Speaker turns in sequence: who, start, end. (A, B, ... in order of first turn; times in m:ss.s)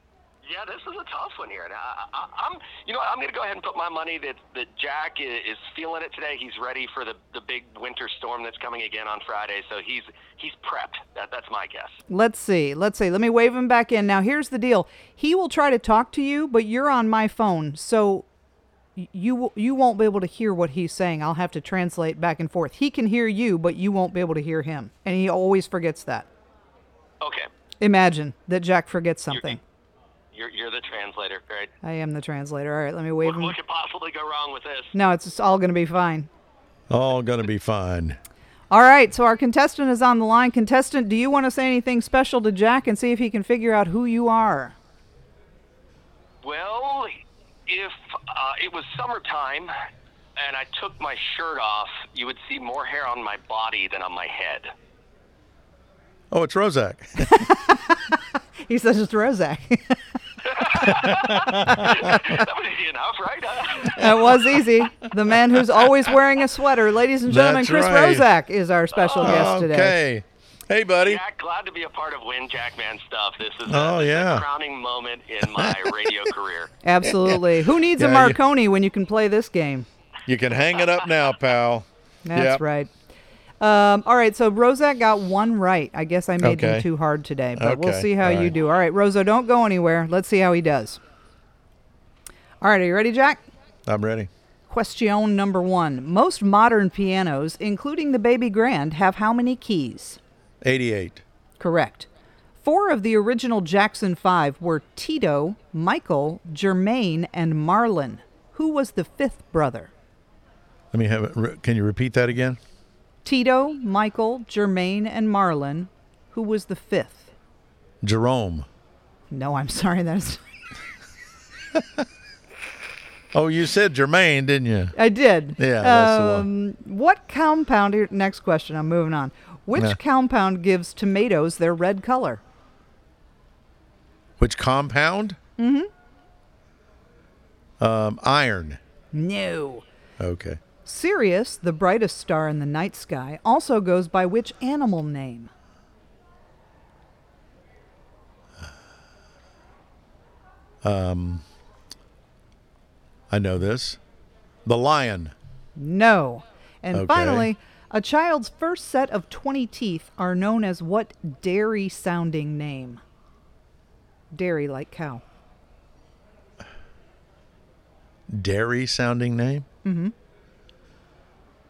0:00.4-0:12.0 A
0:12.1-0:18.2 B
0:19.0-0:26.3 B
0:27.2-0:27.5 A
0:27.8-0:29.6 B
0:30.3-0:31.7 A
0:31.8-0:33.5 B
0:33.2-0:34.9 A
0:34.9-0:36.3 B
0:36.9-0:38.2 C
0:38.7-0:44.8 B
0:46.4-0:49.7 A
0:50.4-0:54.7 A
0:56.3-0:57.5 C
0:57.2-1:00.0 B
1:00.5-1:04.4 A
1:00.7-1:02.4 C
1:03.9-1:10.0 B
1:07.2-1:08.3 C
1:09.0-1:09.4 A
1:09.2-1:11.2 C
1:11.0-1:16.7 A
1:13.7-1:14.4 C
1:15.5-1:15.9 C
1:16.8-1:19.9 B
1:17.0-1:18.4 C
1:20.2-1:22.6 C
1:22.2-1:22.9 B
1:23.6-1:31.0 B
1:26.4-1:26.9 C
1:27.6-1:28.5 C
1:32.6-1:33.4 B
1:33.9-1:34.3 C
1:34.7-1:40.2 B
1:40.6-1:41.2 C
1:41.6-1:42.1 B
1:42.6-1:49.9 B
1:50.9-1:52.6 C
1:53.2-1:57.3 B
1:58.0-1:58.7 C
1:59.3-2:00.4 B
2:01.7-2:02.0 C
2:03.3-2:04.9 C
2:04.9-2:12.4 B
2:05.6-2:06.5 C
2:14.4-2:15.4 C
2:15.6-2:15.9 B
2:17.8-2:18.8 C
2:19.1-2:19.9 B
2:20.2-2:20.6 C
2:20.8-2:25.5 B
2:30.8-2:31.4 C
2:33.3-2:34.0 C
2:34.6-2:35.3 C
2:35.8-2:43.0 B
2:36.9-2:37.5 C
2:44.3-2:45.2 B
2:48.3-2:49.7 C
2:49.8-2:50.1 B